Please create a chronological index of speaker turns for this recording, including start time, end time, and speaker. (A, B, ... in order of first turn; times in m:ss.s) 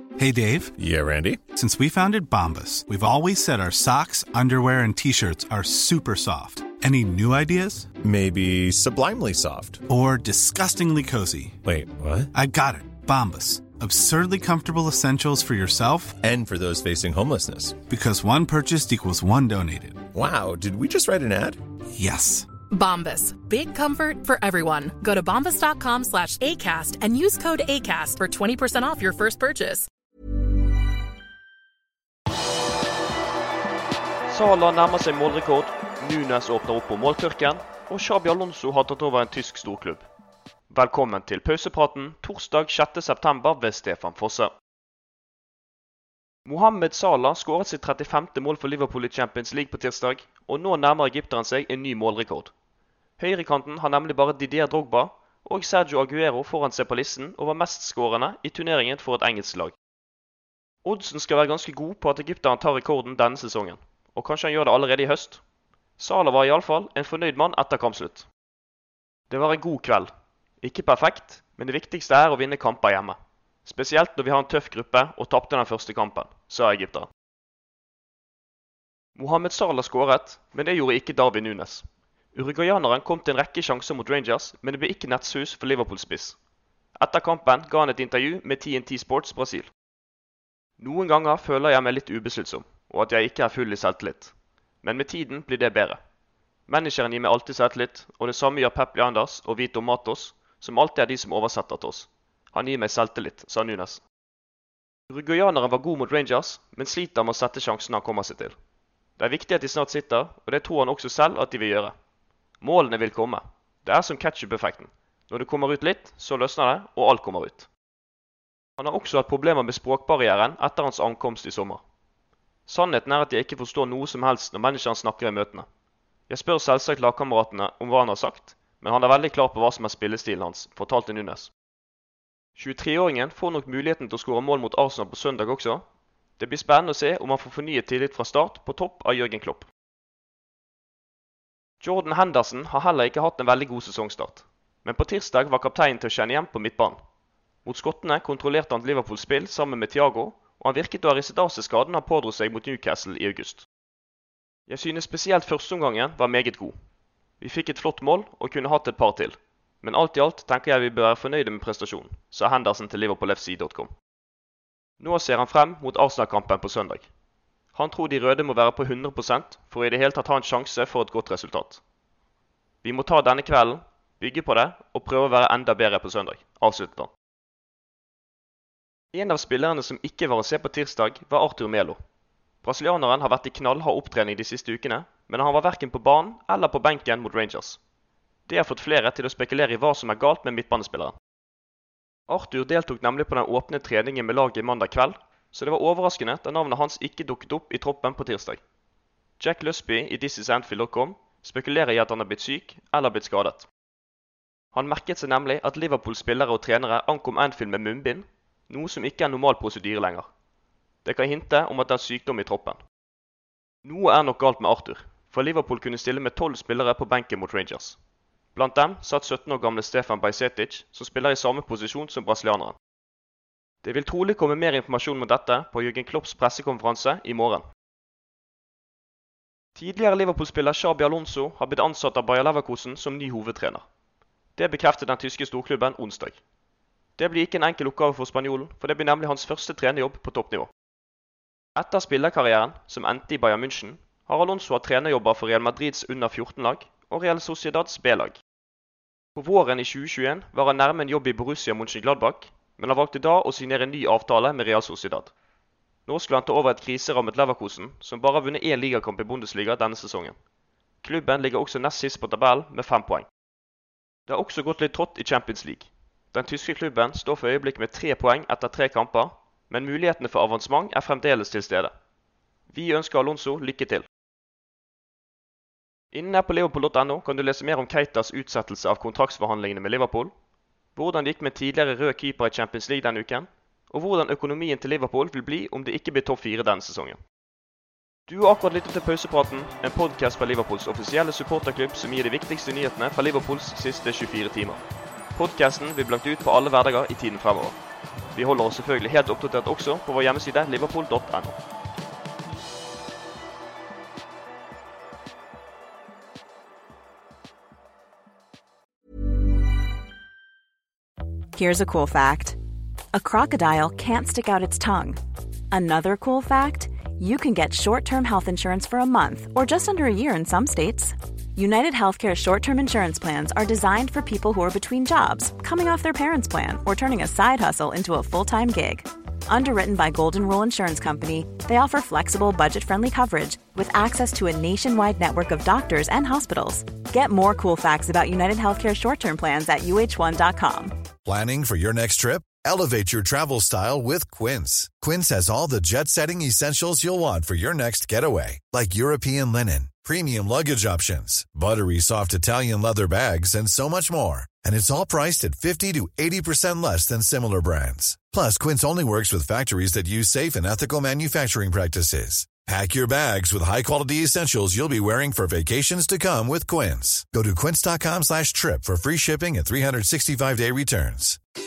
0:00.2-0:00.8 A
0:00.8-0:01.4 B
0:01.5-0:07.9 A
0:08.0-0:09.8 B
0:09.9-0:11.6 A
0:11.6-0:12.3 B
0:12.3-0:16.2 A
0:16.2-0:17.8 B
0:17.9-0:20.0 A
0:20.1-0:21.6 B
0:22.0-0:22.5 A
0:22.7-0:29.9 C
0:34.3-0:40.1 D
0:40.7-0:44.5 D
0:46.5-0:52.5 D
0:53.2-0:59.7 D
1:00.8-1:05.4 D
1:06.0-1:08.3 D
1:09.3-1:10.1 D
1:10.6-1:17.1 D
1:19.2-1:26.4 D
1:27.0-1:29.7 D
1:30.8-1:36.0 D
1:36.7-1:44.0 D
1:45.1-1:48.6 D
1:49.2-1:51.9 D
1:52.6-1:57.7 D
1:58.8-2:01.8 D
2:02.7-2:05.7 D
2:06.3-2:11.5 D
2:12.6-2:15.8 D
2:16.4-2:19.7 D
2:21.8-2:27.0 D
2:27.6-2:33.6 D
2:34.7-2:36.8 D
2:37.4-2:43.9 D
2:45.0-2:47.1 D
2:47.7-2:51.8 D
2:52.8-2:57.1 D
2:59.1-3:02.0 D
3:02.6-3:07.8 D
3:08.5-3:11.2 D
3:12.3-3:18.6 D
3:19.4-3:23.7 D
3:24.7-3:30.3 D
3:31.0-3:32.8 D
3:33.9-3:38.0 D
3:38.6-3:42.8 D
3:43.8-3:47.6 D
3:49.8-3:53.8 D
3:54.6-3:56.4 D
3:57.2-4:00.7 D
4:01.8-4:08.4 D
4:09.4-4:15.3 D
4:16.1-4:20.4 D
4:21.0-4:23.3 D
4:24.3-4:31.9 D
4:32.7-4:34.1 D
4:36.1-4:40.3 D
4:41.0-4:47.2 D
4:48.3-4:54.8 D
4:55.4-4:57.8 D
4:58.4-5:01.6 D
5:11.6-5:12.6 E
5:13.2-5:15.2 E
5:15.7-5:41.0 E
5:41.2-6:11.4 F